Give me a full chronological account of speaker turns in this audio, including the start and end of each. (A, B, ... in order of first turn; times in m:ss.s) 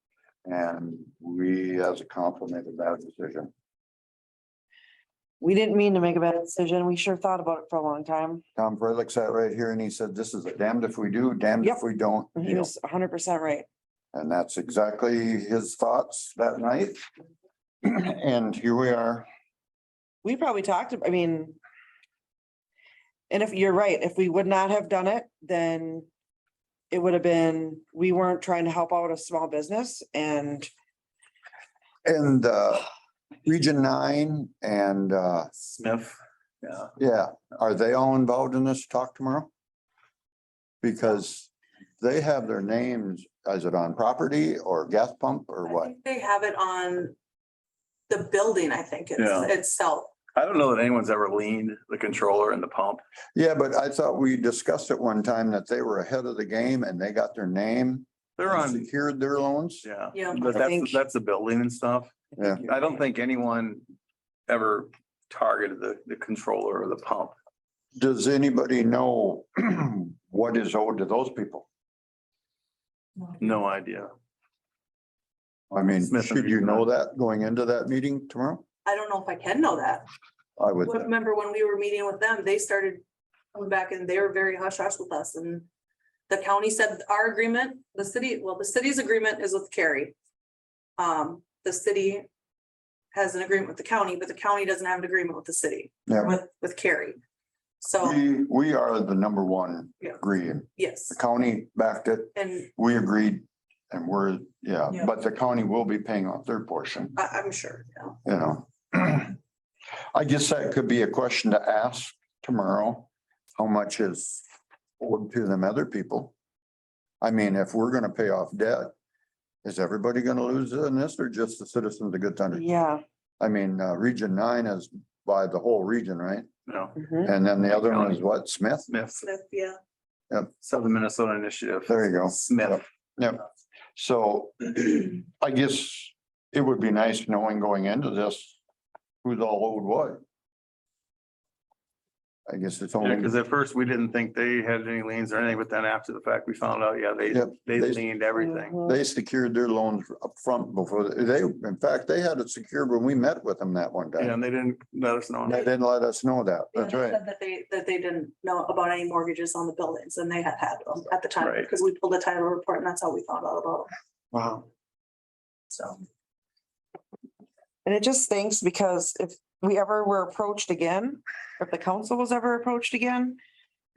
0:00.4-0:03.5 A
0:05.4-0:08.4 B
0:08.6-0:12.7 A
0:12.4-0:13.7 B
0:14.1-0:17.0 A
0:17.8-0:19.3 A
0:20.2-0:21.6 B
0:23.3-0:26.1 B
0:26.9-0:30.7 B
0:32.0-0:32.9 A
0:33.5-0:35.5 A
0:35.7-0:36.9 C
0:37.0-0:39.5 A
0:40.8-0:45.9 A
0:45.7-0:47.2 D
0:48.1-0:50.1 D
0:49.2-0:49.5 C
0:50.4-0:53.0 C
0:53.4-0:59.8 A
0:58.4-0:58.9 C
0:59.8-1:03.9 C
1:00.1-1:00.6 D
1:00.5-1:01.0 B
1:02.4-1:02.7 A
1:04.5-1:07.4 C
1:08.0-1:11.7 A
1:13.4-1:14.1 C
1:15.7-1:18.6 A
1:16.1-1:16.9 C
1:18.8-1:20.1 D
1:20.6-1:21.0 A
1:20.8-1:23.0 D
1:23.5-1:25.7 D
1:26.3-1:30.2 D
1:31.0-1:32.3 D
1:33.1-1:37.2 D
1:36.1-1:36.4 A
1:37.8-1:38.2 D
1:38.0-1:47.2 A
1:40.8-1:41.2 D
1:42.4-1:42.7 D
1:47.2-1:48.2 D
1:48.2-1:49.4 A
1:50.1-1:54.4 A
1:55.0-1:56.3 A
1:57.2-1:58.9 A
1:59.6-2:02.6 A
2:02.5-2:03.0 B
2:03.4-2:06.5 A
2:06.7-2:07.0 C
2:07.0-2:07.3 B
2:07.2-2:08.9 A
2:07.7-2:08.2 C
2:08.9-2:09.2 C
2:09.2-2:09.8 D
2:10.6-2:12.8 C
2:11.9-2:13.4 A
2:14.0-2:18.6 A
2:19.2-2:20.2 A
2:22.5-2:23.3 A
2:23.0-2:28.8 C
2:27.3-2:28.1 A
2:28.8-2:34.4 A
2:34.2-2:35.7 C
2:35.4-2:37.2 A
2:36.8-2:43.9 D
2:44.3-2:44.7 B
2:45.7-2:46.0 D
2:47.8-2:53.4 B